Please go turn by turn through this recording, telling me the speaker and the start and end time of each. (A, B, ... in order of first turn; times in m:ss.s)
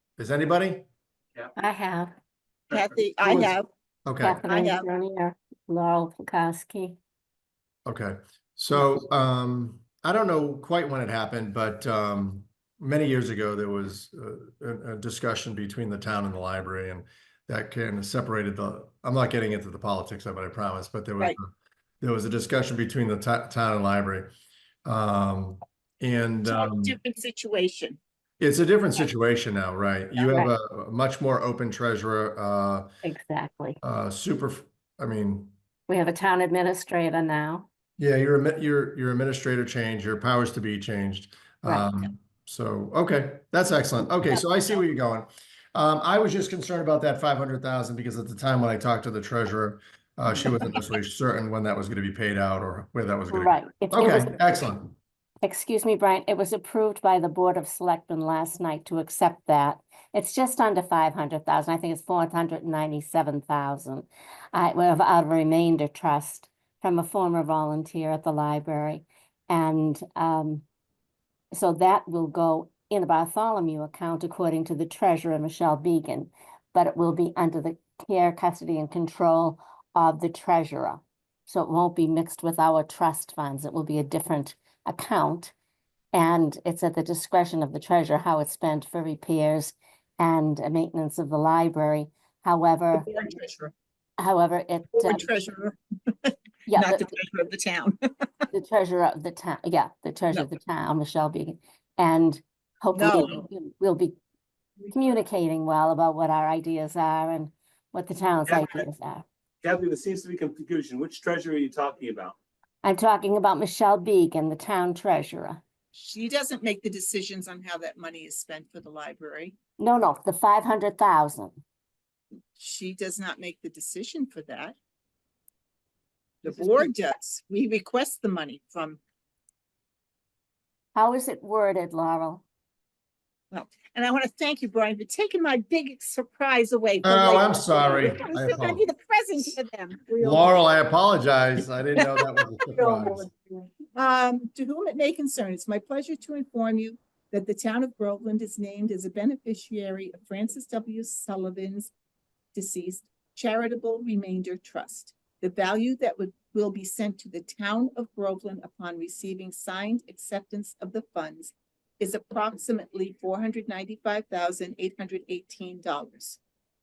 0:00.2-0:00.9 A
0:01.6-0:02.1 B
0:02.7-0:03.7 C
0:03.2-0:04.4 A
0:04.2-0:07.0 B
0:04.4-0:04.9 C
0:07.9-0:21.5 A
0:22.0-0:24.3 A
0:24.8-0:27.0 A
0:26.5-0:28.0 C
0:28.4-0:32.9 A
0:30.2-0:30.5 B
0:33.0-0:33.8 B
0:33.8-0:35.5 A
0:35.9-0:37.7 B
0:38.0-0:55.0 A
0:53.3-0:54.4 B
0:55.4-1:10.6 B
1:11.5-1:25.5 B
1:26.1-1:33.1 B
1:32.9-1:33.7 C
1:34.2-1:35.3 B
1:35.0-1:38.3 C
1:36.7-1:37.1 B
1:38.5-1:44.2 B
1:42.9-1:43.5 C
1:44.9-1:49.2 B
1:48.5-1:48.8 D
1:49.6-1:52.4 D
1:52.8-1:55.6 B
1:55.9-1:59.6 C
1:59.8-2:01.6 B
2:02.6-2:04.8 C
2:06.4-2:09.0 C
2:11.0-2:12.4 B
2:13.5-2:20.6 C
2:17.0-2:18.8 A
2:20.2-2:23.3 A
2:22.7-2:31.9 C
2:32.5-2:46.4 C